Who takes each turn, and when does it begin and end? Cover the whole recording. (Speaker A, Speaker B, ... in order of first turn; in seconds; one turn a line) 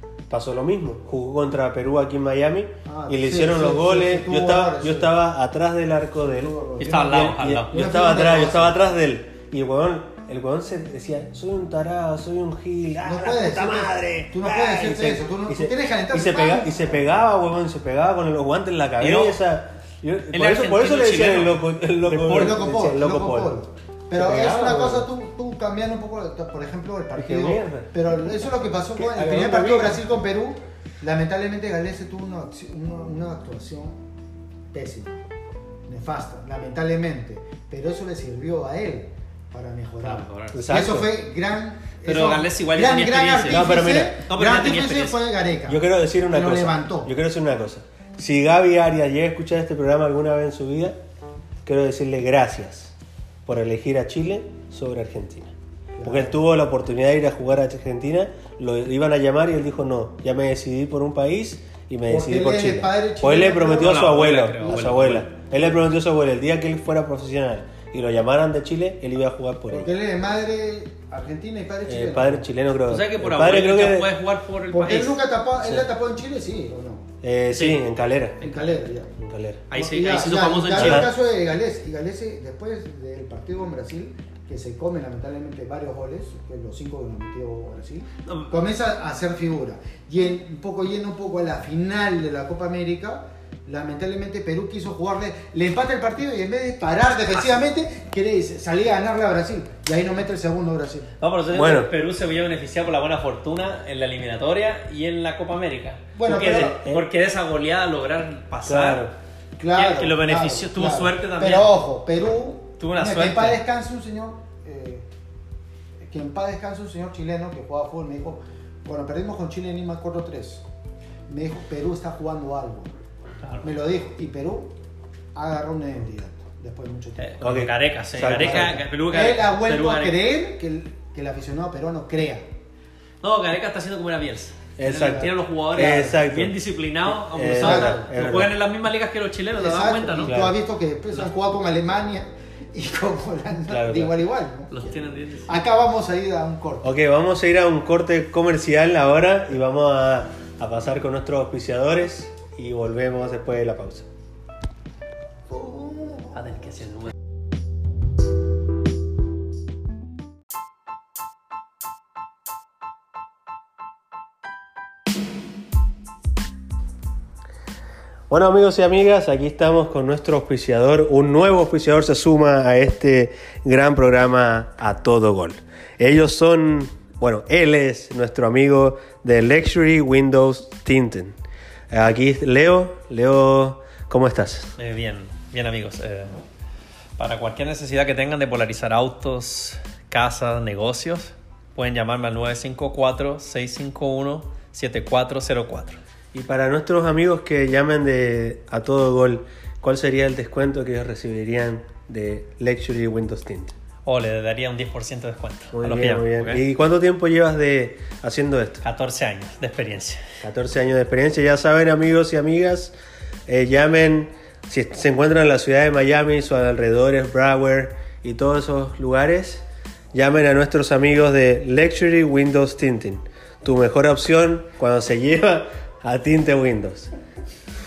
Speaker A: 0.3-23.5
Speaker B: 2.9-5.1
Speaker B: 6.3-8.8
Speaker C: 6.8-7.7
Speaker B: 13.0-17.1
Speaker C: 19.0-19.4
Speaker C: 20.3-22.6
Speaker B: 22.2-34.0
Speaker A: 24.1-25.1
Speaker A: 27.1-27.9
Speaker A: 28.9-30.0
Speaker B: 34.7-35.2
Speaker B: 35.9-47.1
Speaker C: 40.0-40.7
Speaker A: 40.5-41.1
Speaker C: 42.0-45.2
Speaker A: 43.5-44.1
Speaker A: 45.7-51.0
Speaker A: 51.6-52.9
Speaker A: 53.5-55.5
Speaker B: 56.0-56.4
Speaker A: 56.0-69.9
Speaker B: 62.1-64.9
Speaker C: 63.7-65.3
Speaker B: 69.7-72.5
Speaker A: 71.9-74.1
Speaker C: 72.9-75.2
Speaker B: 74.7-77.0
Speaker A: 77.2-78.4
Speaker C: 77.5-77.8
Speaker B: 78.4-79.1
Speaker A: 79.2-79.6
Speaker C: 79.7-81.1
Speaker B: 79.7-101.1
Speaker A: 80.7-81.1
Speaker C: 88.2-88.5
Speaker C: 101.2-109.1
Speaker A: 101.5-101.9
Speaker B: 106.1-106.8
Speaker A: 106.3-107.1
Speaker A: 108.7-109.1
Speaker B: 109.6-115.0
Speaker C: 109.7-111.7
Speaker C: 112.8-113.6
Speaker B: 116.0-120.6
Speaker B: 121.3-122.9
Speaker B: 123.6-124.7
Speaker B: 125.3-127.4
Speaker C: 127.2-130.2
Speaker A: 127.4-128.8
Speaker B: 128.3-132.4
Speaker C: 133.2-140.4
Speaker A: 134.8-138.5
Speaker B: 137.6-138.0
Speaker B: 139.6-146.9
Speaker A: 140.2-140.5
Speaker A: 143.7-144.1
Speaker C: 144.7-145.5
Speaker A: 146.8-154.1
Speaker B: 155.5-156.4
Speaker C: 156.3-157.1
Speaker A: 168.3-181.4
Speaker A: 181.9-184.7
Speaker C: 184.8-186.4
Speaker C: 187.2-196.0
Speaker A: 196.3-203.7
Speaker C: 204.0-206.6
Speaker A: 205.7-208.8
Speaker C: 208.8-210.2
Speaker A: 210.4-212.9
Speaker A: 213.5-227.1